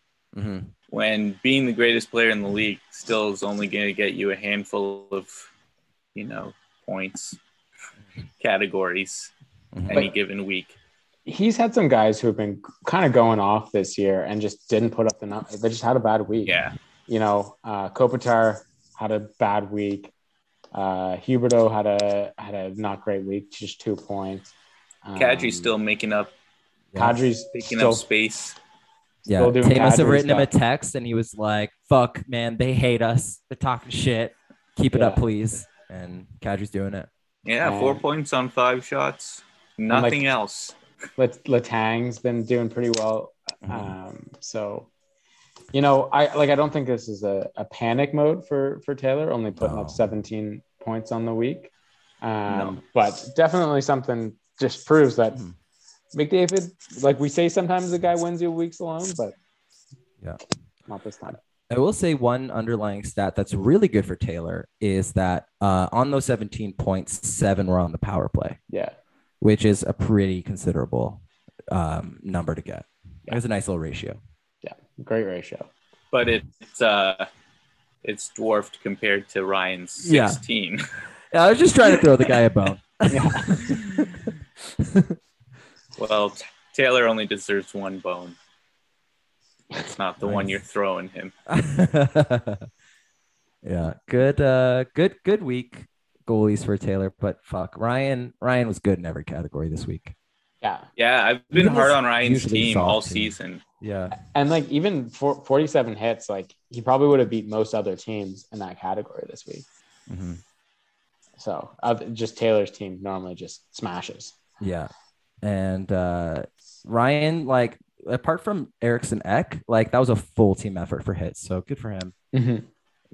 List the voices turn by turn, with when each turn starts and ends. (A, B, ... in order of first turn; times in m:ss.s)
0:00.3-0:00.7 A
0:00.9-0:05.3 B
0:06.1-0:07.4 B
0:08.4-0:09.3 B
0:09.7-0:10.0 A
0:09.9-0:10.8 B
0:11.2-0:20.1 C
0:16.5-0:16.7 B
0:20.7-0:24.5 C
0:25.0-0:25.7 C
0:25.2-0:26.3 B
0:26.9-0:28.0 C
0:27.5-0:28.6 B
0:29.2-0:37.1 A
0:29.3-0:30.5 C
0:34.9-0:35.2 C
0:37.4-0:40.7 B
0:37.6-0:38.0 C
0:39.9-0:40.2 C
0:41.2-0:44.9 C
0:43.6-0:43.9 A
0:45.7-0:55.4 C
0:49.6-0:50.0 A
0:52.5-0:52.8 A
0:56.1-0:59.3 C
1:00.9-1:01.4 C
1:01.7-1:08.6 A
1:09.4-1:14.2 A
1:14.6-1:15.7 C
1:16.1-1:17.2 B
1:18.0-1:20.8 B
1:20.0-1:20.4 A
1:21.3-1:23.8 A
1:23.1-1:23.8 C
1:26.0-1:28.4 B
1:29.8-1:31.3 B
1:30.2-1:30.5 A
1:31.5-1:32.7 A
1:33.6-1:40.1 A
1:41.0-1:43.6 B
1:41.5-1:44.1 A
1:44.3-1:49.6 C
1:50.1-1:50.4 A
1:51.4-1:54.4 C
1:54.6-1:54.9 A
1:55.4-2:02.1 A
2:02.3-2:02.7 C